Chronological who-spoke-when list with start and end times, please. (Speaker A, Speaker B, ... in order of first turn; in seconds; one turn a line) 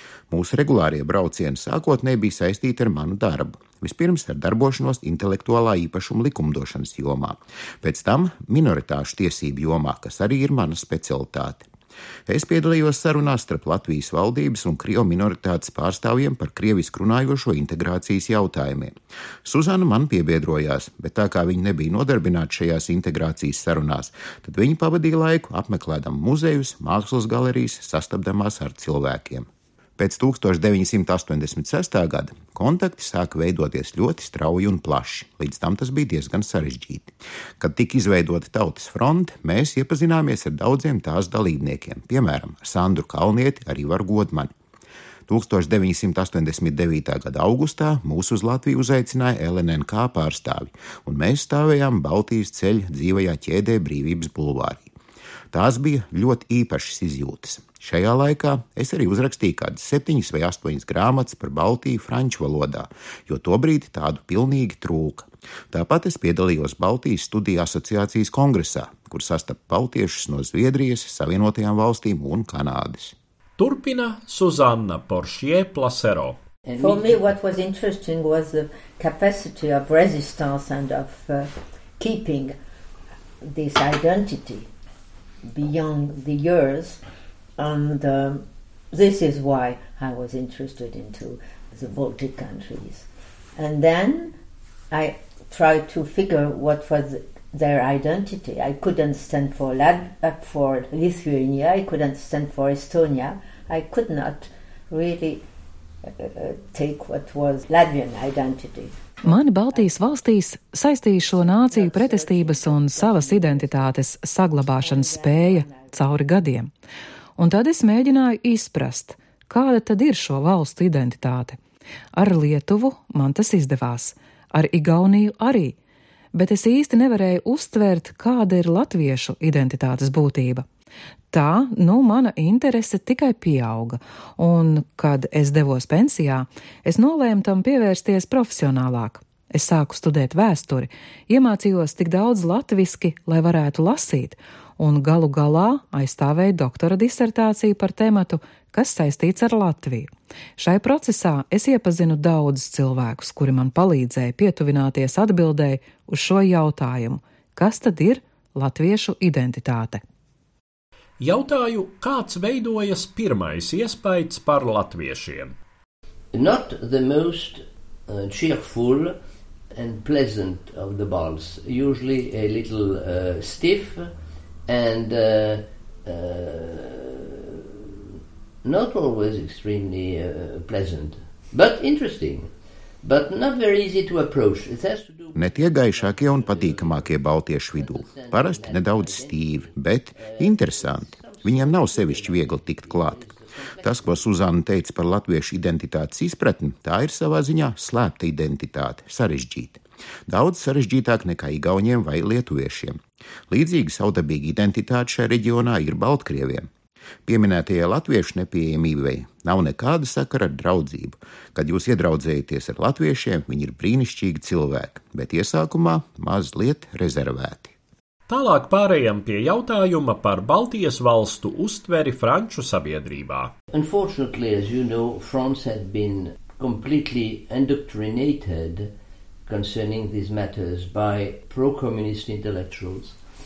Speaker A: 0.3-11.7
Speaker A: 12.3-44.5
Speaker A: 45.3-54.9
Speaker A: 55.5-73.2
Speaker B: 73.6-76.4
Speaker C: 76.7-77.4
Speaker D: 76.8-82.6
Speaker D: 83.4-84.7
Speaker D: 85.5-87.0
Speaker D: 87.6-94.4
Speaker D: 94.9-105.4
Speaker D: 106.0-109.9
Speaker E: 109.2-116.7
Speaker D: 111.5-113.8
Speaker C: 111.8-113.5
Speaker D: 114.8-116.0
Speaker E: 117.4-121.6
Speaker E: 122.2-125.8
Speaker E: 126.3-130.7
Speaker E: 131.3-160.0
Speaker B: 161.2-165.6
Speaker C: 166.3-169.2
Speaker C: 169.7-174.1
Speaker C: 174.7-177.7
Speaker C: 178.6-182.5
Speaker C: 183.0-194.5
Speaker A: 185.3-193.2
Speaker A: 193.8-203.0
Speaker A: 203.5-206.7
Speaker A: 207.3-217.7
Speaker B: 218.3-223.5
Speaker C: 223.7-228.9
Speaker C: 229.5-233.2